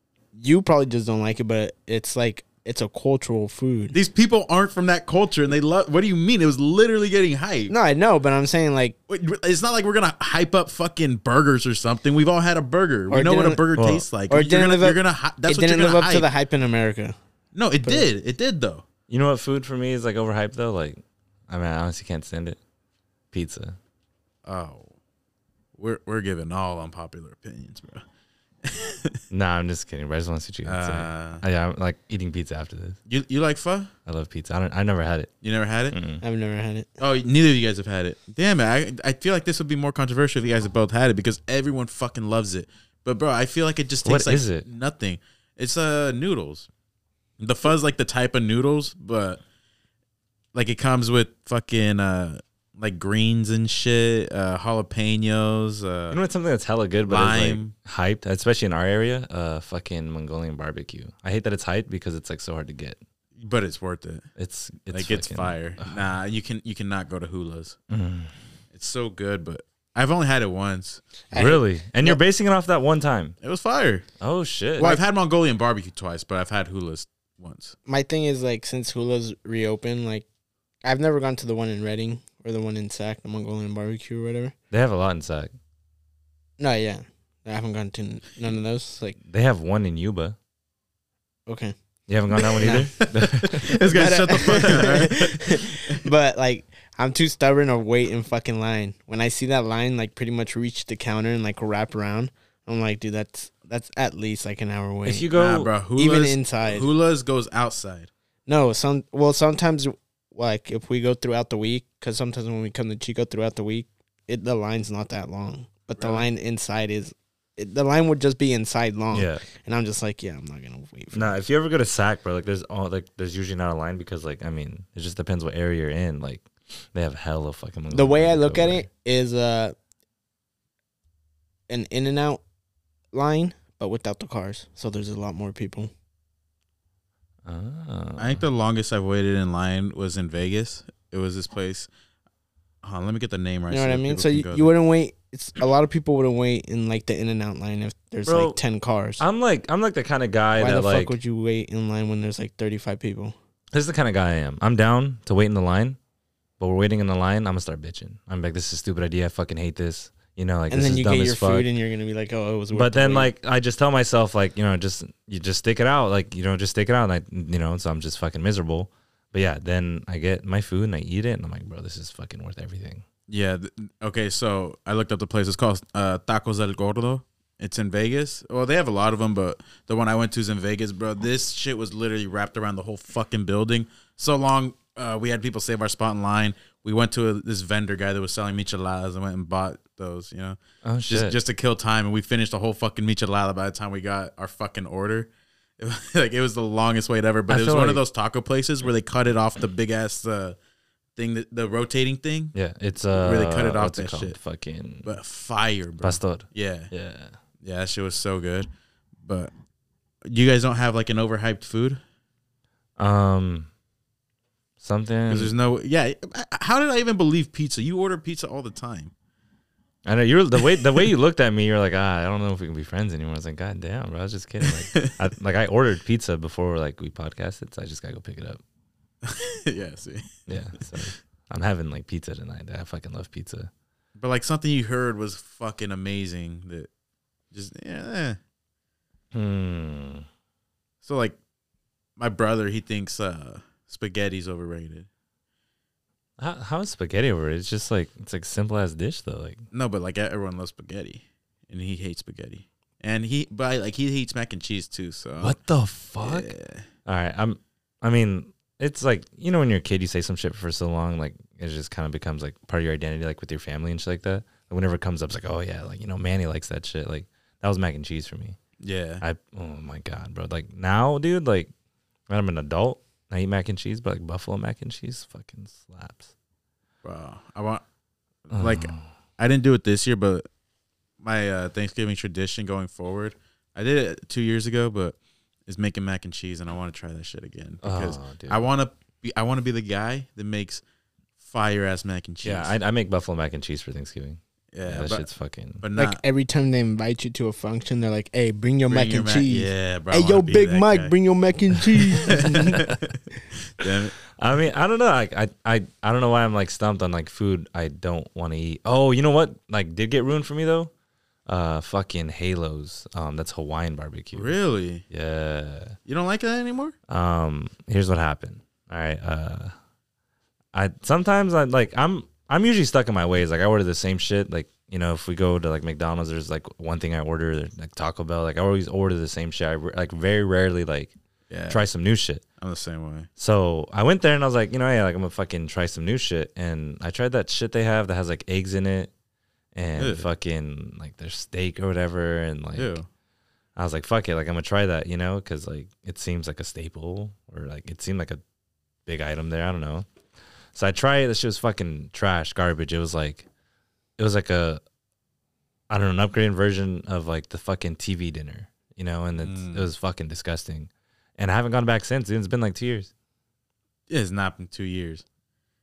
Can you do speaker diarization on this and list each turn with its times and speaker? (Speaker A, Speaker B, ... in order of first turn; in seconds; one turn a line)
Speaker A: 0.3-4.0
Speaker B: 3.9-7.7
Speaker A: 7.7-8.9
Speaker B: 9.1-16.3
Speaker A: 13.1-13.6
Speaker C: 13.8-14.1
Speaker A: 14.3-17.1
Speaker B: 17.5-18.8
Speaker C: 19.1-22.6
Speaker C: 23.3-23.8
Speaker B: 24.4-24.9
Speaker B: 25.8-28.0
Speaker B: 28.6-29.2
Speaker C: 29.3-33.0
Speaker B: 30.6-31.4
Speaker B: 33.1-33.9
Speaker C: 34.0-35.3
Speaker B: 35.4-36.0
Speaker C: 35.9-36.2
Speaker A: 36.2-36.9
Speaker B: 37.0-46.7
Speaker C: 44.0-44.6
Speaker B: 47.4-49.4
Speaker B: 50.5-56.2
Speaker C: 56.1-63.0
Speaker B: 57.0-57.7
Speaker B: 63.4-64.3
Speaker C: 64.4-66.0
Speaker B: 64.9-67.8
Speaker C: 67.9-68.3
Speaker B: 68.7-71.0
Speaker A: 71.3-72.2
Speaker C: 71.3-73.3
Speaker B: 73.4-74.0
Speaker C: 74.2-75.0
Speaker B: 74.8-77.7
Speaker A: 77.9-80.2
Speaker A: 80.8-84.5
Speaker C: 84.7-85.5
Speaker A: 86.6-89.2
Speaker C: 89.2-90.3
Speaker A: 91.5-91.7
Speaker C: 92.1-93.7
Speaker A: 92.3-105.3
Speaker B: 92.4-95.9
Speaker C: 105.0-105.7
Speaker B: 105.3-108.1
Speaker A: 106.0-106.9
Speaker A: 108.5-121.3
Speaker B: 116.0-116.2
Speaker C: 119.1-119.4
Speaker C: 121.1-128.9
Speaker A: 127.9-129.7
Speaker A: 131.7-132.4
Speaker A: 133.1-135.9
Speaker C: 137.4-138.4
Speaker B: 138.2-141.9
Speaker B: 142.8-144.7
Speaker A: 143.7-149.2
Speaker C: 148.2-148.6
Speaker C: 149.2-151.2
Speaker A: 150.5-153.3
Speaker C: 153.7-156.0
Speaker C: 156.6-161.7
Speaker A: 160.7-163.3
Speaker C: 162.7-173.0
Speaker B: 173.3-200.6
Speaker C: 190.8-191.3
Speaker C: 197.5-198.0
Speaker B: 201.2-202.5
Speaker C: 202.5-205.1
Speaker B: 203.2-204.4
Speaker B: 205.0-206.9
Speaker C: 206.0-207.3
Speaker B: 207.6-208.7
Speaker B: 209.2-209.5
Speaker B: 210.2-212.0
Speaker C: 213.0-213.7
Speaker C: 214.8-215.5
Speaker B: 215.3-219.1
Speaker C: 220.0-228.6
Speaker B: 224.6-225.2
Speaker B: 229.2-230.3
Speaker C: 230.5-233.7
Speaker B: 234.2-236.9
Speaker B: 237.5-238.4
Speaker C: 239.3-240.2
Speaker B: 241.0-241.4
Speaker B: 242.2-245.1
Speaker C: 246.4-249.6
Speaker B: 249.7-255.6
Speaker C: 255.4-256.5
Speaker B: 256.2-256.8
Speaker C: 257.1-268.6
Speaker B: 268.8-269.2
Speaker C: 269.2-271.7
Speaker C: 272.3-276.3
Speaker B: 277.0-277.8
Speaker B: 278.5-280.4
Speaker C: 278.5-279.0
Speaker B: 281.2-285.1
Speaker B: 285.7-290.8
Speaker C: 287.8-288.6
Speaker B: 291.4-292.7
Speaker C: 292.4-295.8
Speaker B: 294.7-295.3
Speaker B: 295.8-296.2
Speaker A: 295.9-302.9
Speaker B: 298.9-301.1
Speaker B: 302.2-304.2
Speaker C: 304.3-310.9
Speaker C: 311.4-314.5
Speaker B: 314.3-315.0
Speaker C: 315.1-316.0
Speaker B: 316.1-316.9
Speaker C: 317.1-319.7
Speaker C: 320.7-331.1
Speaker B: 331.5-331.8
Speaker C: 331.7-332.4
Speaker B: 332.6-333.3
Speaker C: 333.4-339.1
Speaker C: 339.7-343.0
Speaker B: 340.0-340.3
Speaker B: 342.8-343.1
Speaker C: 343.8-348.4
Speaker C: 349.1-350.1
Speaker C: 350.7-353.4
Speaker C: 354.2-354.8
Speaker C: 355.9-363.1
Speaker B: 359.4-359.9
Speaker B: 364.1-365.2